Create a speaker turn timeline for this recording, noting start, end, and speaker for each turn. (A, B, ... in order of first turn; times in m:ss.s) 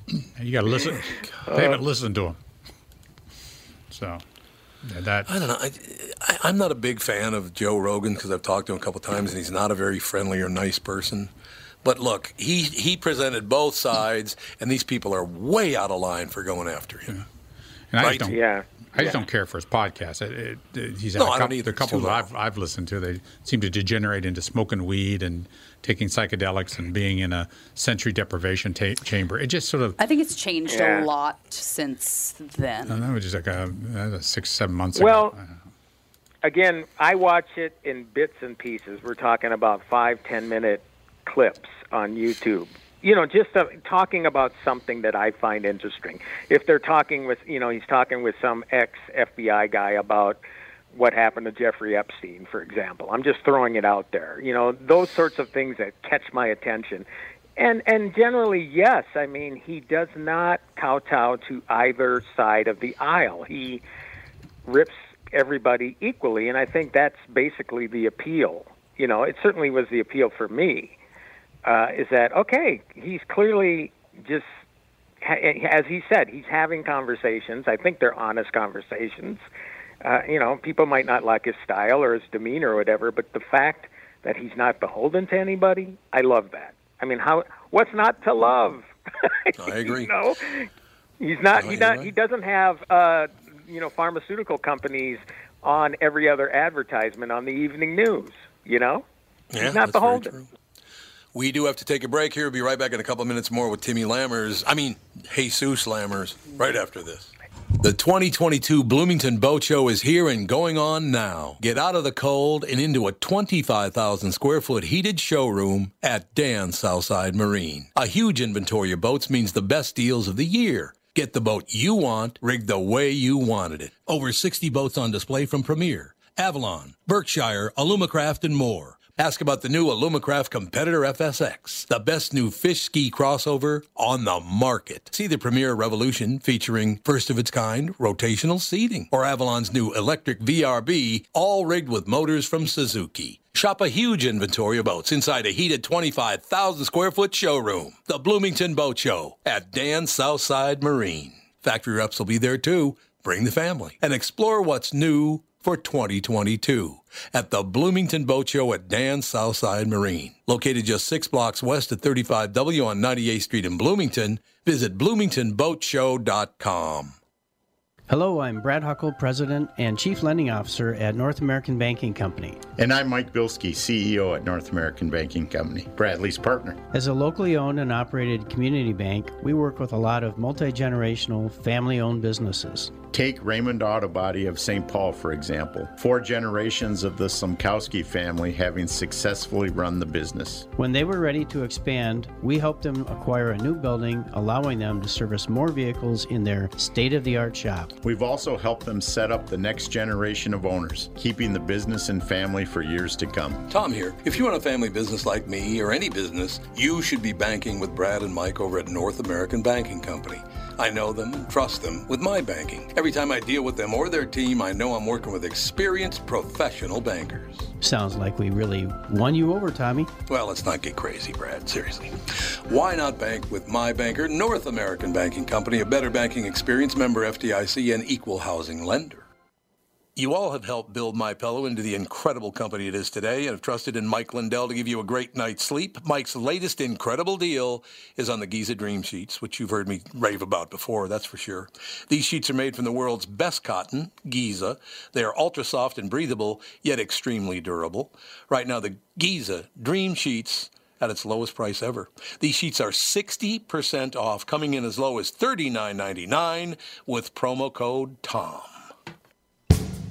0:00.4-0:02.4 A
0:01.5-0:01.8 B
0:03.9-0:04.2 A
0:04.8-0:05.3 A
0:05.3-0:11.3 C
0:11.8-0:17.2 C
0:17.9-0:18.4 A
0:18.0-0:18.3 C
0:18.3-0:19.2 B
0:18.9-0:30.0 A
0:21.2-0:22.3 C
0:30.0-0:33.0 D
0:30.7-0:31.1 B
0:32.9-0:35.6 A
0:35.0-0:35.3 B
0:36.4-0:50.4 B
0:50.9-0:57.0 B
0:57.6-1:03.8 B
1:04.6-1:11.0 B
1:11.6-1:14.4 B
1:15.2-1:19.4 B
1:20.0-1:30.7 B
1:29.6-1:30.1 C
1:31.2-1:39.0 B
1:31.6-1:32.1 C
1:39.5-1:40.5 C
1:39.6-1:40.3 B
1:41.3-2:47.2 C
2:48.1-2:52.6 E
2:52.8-2:56.8 F
2:56.9-3:03.0 E
3:03.1-3:10.7 F
3:10.8-3:17.9 E
3:18.0-3:23.6 F
3:23.7-3:37.7 C
3:37.8-3:40.1 E
3:40.3-3:42.2 C
3:42.7-3:49.2 C
3:50.2-4:18.7 C